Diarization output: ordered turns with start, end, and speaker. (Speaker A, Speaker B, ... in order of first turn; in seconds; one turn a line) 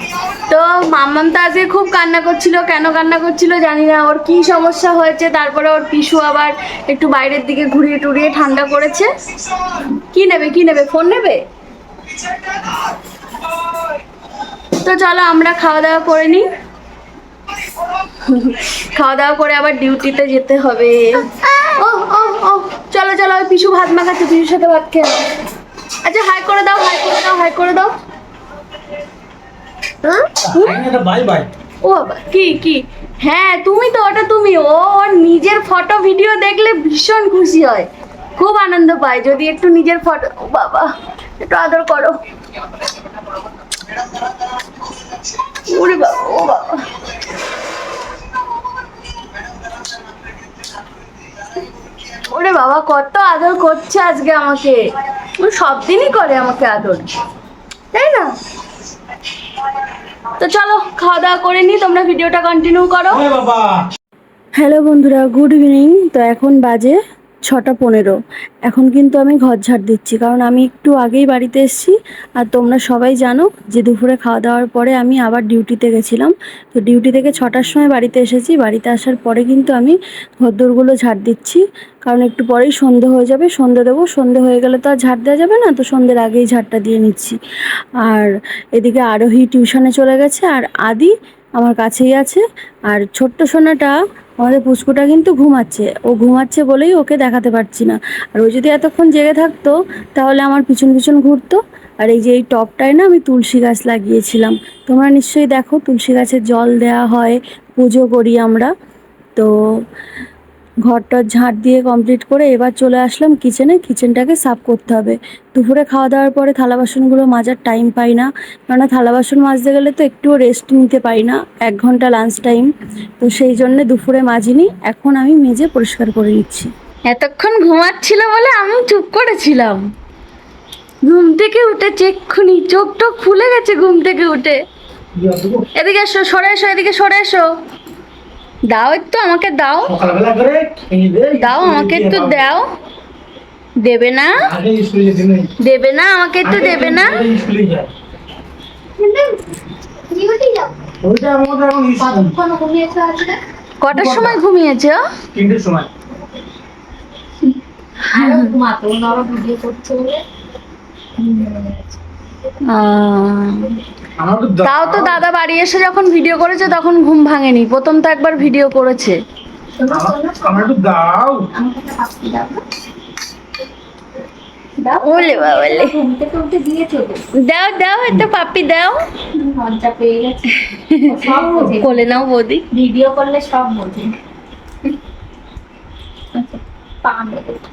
Speaker A: 0.5-9.1
Speaker A: 10.1-11.4
Speaker A: 14.8-16.4
Speaker A: 18.2-25.3
Speaker A: 26.0-27.9
Speaker B: 30.4-31.5
Speaker A: 30.5-30.8
Speaker A: 31.8-42.2
Speaker A: 45.7-46.9
Speaker A: 52.1-54.8
Speaker A: 55.4-57.0
Speaker A: 57.9-58.3
Speaker A: 60.4-63.2
Speaker B: 63.1-63.8
Speaker A: 64.6-87.4
Speaker A: 88.0-108.7
Speaker A: 110.9-129.8
Speaker A: 131.0-134.6
Speaker B: 135.2-135.7
Speaker A: 135.8-137.5
Speaker A: 138.7-139.9
Speaker B: 139.9-142.4
Speaker A: 141.4-142.7
Speaker A: 143.8-144.4
Speaker B: 144.4-145.5
Speaker A: 145.6-147.2
Speaker B: 146.4-147.9
Speaker C: 149.0-149.4
Speaker C: 150.1-150.7
Speaker B: 151.0-152.4
Speaker C: 152.0-153.4
Speaker A: 153.8-155.0
Speaker B: 153.9-154.4
Speaker B: 155.3-155.9
Speaker A: 158.1-158.6
Speaker C: 158.1-160.2
Speaker C: 161.2-162.0
Speaker A: 162.7-163.8
Speaker B: 164.2-165.2
Speaker A: 164.6-169.2
Speaker C: 169.8-170.7
Speaker B: 169.9-171.5
Speaker C: 171.5-172.6
Speaker C: 174.8-177.2
Speaker A: 175.0-176.0
Speaker A: 177.4-179.0
Speaker C: 179.3-182.1
Speaker A: 180.6-181.1
Speaker B: 181.2-181.7
Speaker A: 181.8-182.7
Speaker C: 182.7-184.2
Speaker C: 186.3-187.6